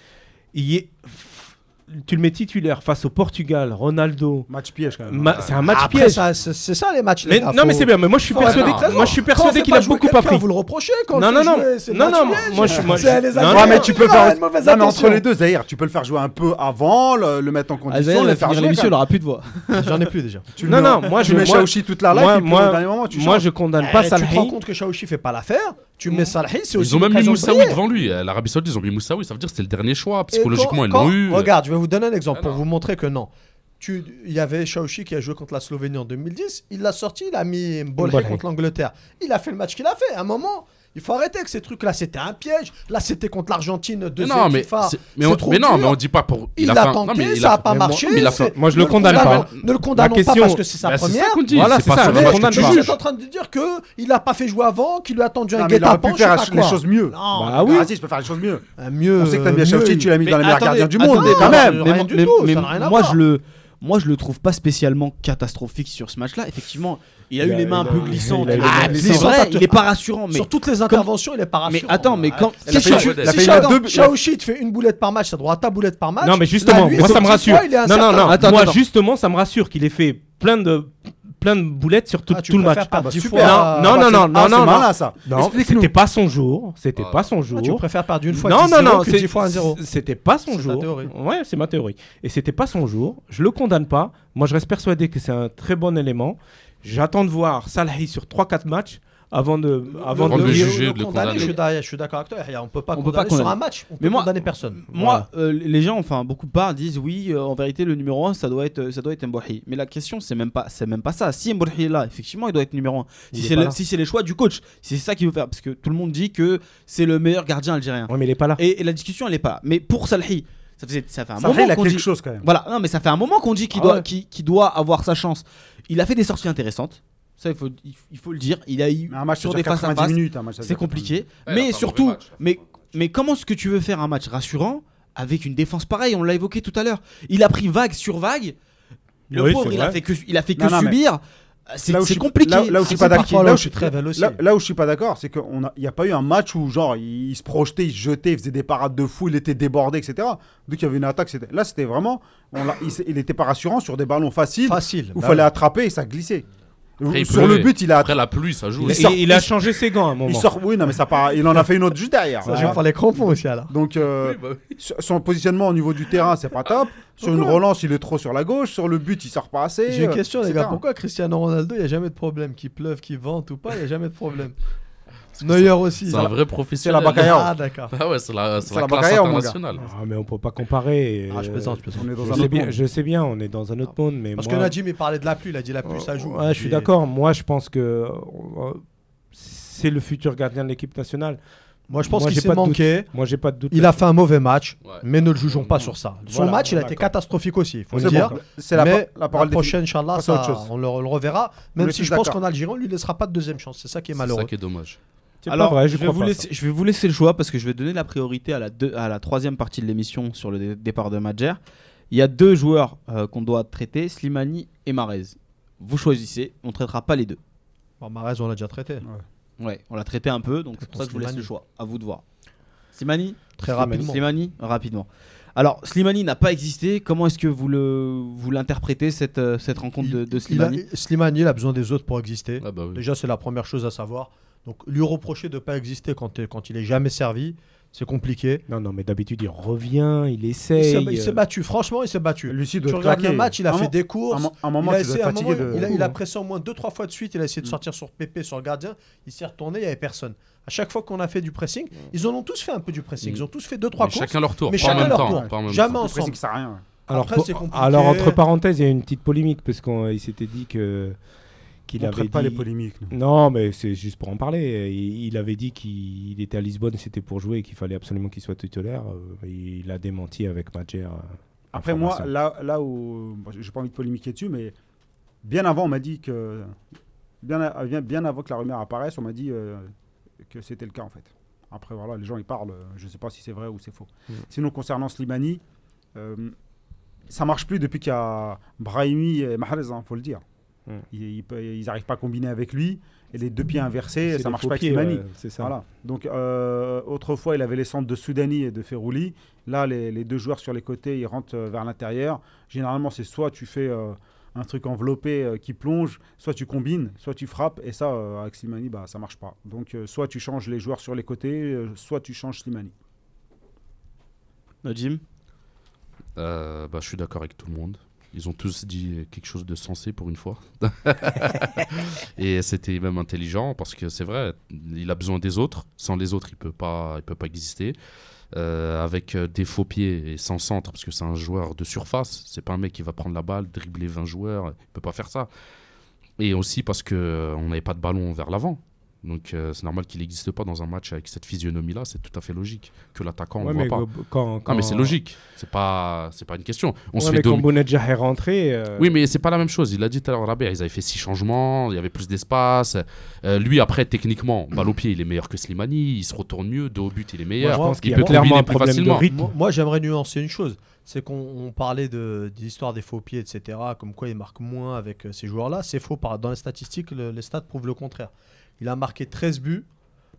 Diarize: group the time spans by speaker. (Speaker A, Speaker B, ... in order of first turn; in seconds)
Speaker A: 0.5-4.5, 5.1-6.3, 7.2-10.5, 11.1-13.9, 20.6-24.6, 26.1-26.3, 38.0-38.4, 47.7-50.6, 51.5-52.9, 57.3-57.9, 67.4-69.3, 76.2-100.8, 104.9-105.3, 113.3-113.8, 118.1-118.6, 123.7-124.1, 139.3-140.0, 158.8-160.5, 162.4-162.8, 179.8-184.8, 185.8-191.4, 192.1-194.0, 196.3-197.1, 197.9-198.4, 205.4-206.5, 223.7-224.1, 238.7-241.4, 245.7-246.2, 257.1-261.2, 261.9-272.3, 294.3-295.7, 343.6-345.2, 347.2-349.2, 357.6-359.5
Speaker B: 4.5-5.6, 12.4-19.0, 20.6-23.5, 55.5-58.6, 59.2-61.9, 68.4-69.2, 72.7-74.1, 83.0-85.9, 121.4-122.5, 129.1-131.2, 140.6-141.0, 141.9-156.4, 157.0-158.2, 158.8-159.5, 160.3-162.8, 163.7-170.8, 176.8-177.5, 178.6-179.6, 181.9-182.8, 198.0-200.7, 201.8-202.4, 242.5-246.1, 254.8-256.8, 262.0-263.1, 271.7-274.8, 275.4-276.8, 277.4-279.9, 280.4-285.6, 286.1-286.5, 287.3-290.4, 291.1-312.9
Speaker C: 5.7-15.2, 19.7-20.6, 23.8-27.8, 30.3-46.0, 46.6-57.9, 58.8-60.2, 61.0-63.2, 68.0-78.6, 82.3-84.1, 87.5-89.8, 90.5-91.1, 99.9-104.8, 142.8-144.4, 154.7-155.5, 162.4-163.7, 167.2-167.6, 169.9-174.6, 175.4-176.3, 177.1-177.9, 181.3-182.5, 184.4-186.9, 191.9-193.1, 193.7-204.5, 218.0-219.1, 220.8-221.5, 223.6-224.2, 230.0-238.7, 240.8-256.4, 257.1-258.4, 357.6-358.6, 359.2-369.9
Speaker D: 8.3-9.2, 26.7-31.6, 32.3-32.6, 44.2-49.5, 50.8-53.0, 72.7-73.4, 87.0-87.3, 100.2-101.6, 131.4-132.4, 157.1-159.2, 164.1-164.8, 175.4-179.9, 194.8-195.9, 204.2-205.0, 232.6-233.0, 254.0-256.0, 316.4-328.0, 328.5-335.5, 336.4-344.1, 344.6-347.7, 349.0-359.3
Speaker E: 17.9-20.0, 60.2-71.1, 71.7-73.9, 78.2-78.8, 103.0-138.6, 139.3-143.7, 205.5-211.6, 212.1-217.4, 219.6-222.2, 222.9-230.8, 314.8-315.2